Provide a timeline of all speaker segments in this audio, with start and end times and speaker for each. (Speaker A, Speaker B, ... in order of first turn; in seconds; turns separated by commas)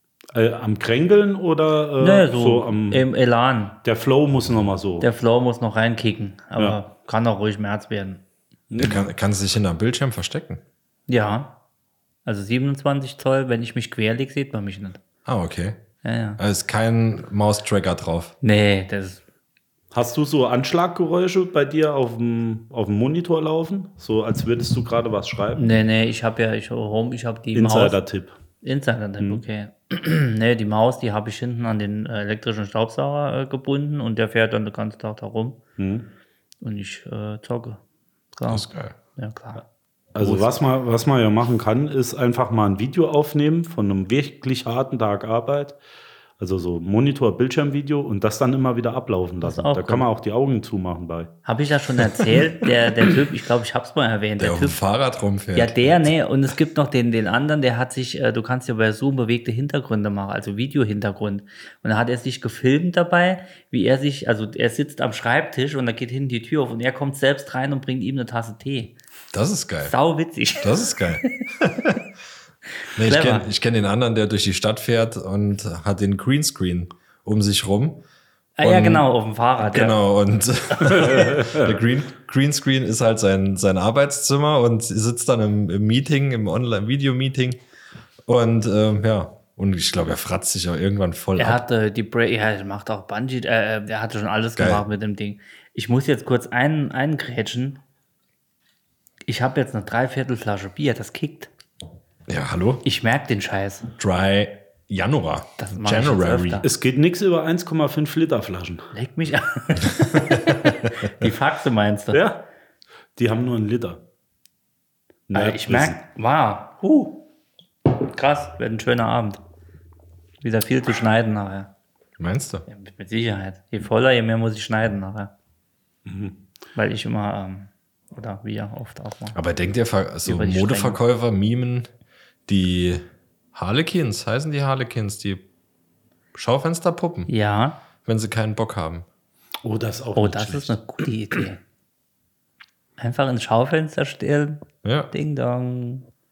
Speaker A: 0.3-3.1, Speaker B: 2.0-3.8, Speaker A: 3.8-5.1, Speaker B: 5.0-8.2, Speaker A: 8.7-9.1, Speaker C: 8.8-10.6, Speaker B: 11.1-11.6, Speaker B: 12.2-15.0, Speaker C: 15.2-15.8, Speaker B: 16.0-16.4, Speaker C: 16.4-18.3, Speaker B: 18.4-19.2, Speaker A: 19.9-25.7, Speaker B: 25.5-28.0, Speaker A: 27.5-28.3, Speaker B: 28.6-35.6, Speaker A: 35.8-36.1, Speaker B: 36.6-37.8, Speaker B: 38.3-39.6, Speaker C: 38.5-38.9, Speaker A: 40.1-45.8, Speaker B: 40.2-40.5, Speaker A: 46.4-51.3, Speaker B: 49.4-50.1, Speaker B: 51.4-54.8, Speaker C: 54.4-56.1, Speaker B: 55.5-68.9, Speaker C: 69.3-69.9, Speaker B: 69.8-71.4, Speaker C: 70.6-72.0, Speaker B: 72.8-73.5, Speaker C: 72.9-78.0, Speaker B: 78.6-80.0, Speaker C: 78.6-79.1, Speaker C: 79.6-87.6, Speaker A: 81.1-81.7, Speaker C: 88.2-91.6, Speaker B: 91.4-97.8, Speaker C: 94.6-94.8, Speaker B: 99.3-101.5, Speaker C: 102.3-102.8, Speaker B: 102.8-103.9, Speaker C: 104.0-106.6, Speaker B: 105.6-106.7, Speaker A: 106.6-108.9, Speaker B: 108.9-112.2, Speaker C: 109.9-110.7, Speaker A: 112.1-112.4, Speaker A: 113.2-114.0, Speaker A: 115.3-116.0, Speaker B: 115.3-117.2, Speaker B: 117.9-119.4, Speaker B: 120.4-121.7, Speaker C: 122.2-122.6, Speaker B: 122.7-125.3, Speaker A: 126.0-126.4, Speaker B: 126.7-129.4, Speaker C: 129.3-131.9, Speaker B: 130.2-131.0, Speaker C: 132.5-135.4, Speaker C: 136.3-137.3, Speaker B: 137.3-137.8, Speaker C: 138.0-139.1, Speaker A: 139.6-140.8, Speaker B: 140.1-141.6, Speaker B: 143.0-146.1, Speaker C: 144.8-145.1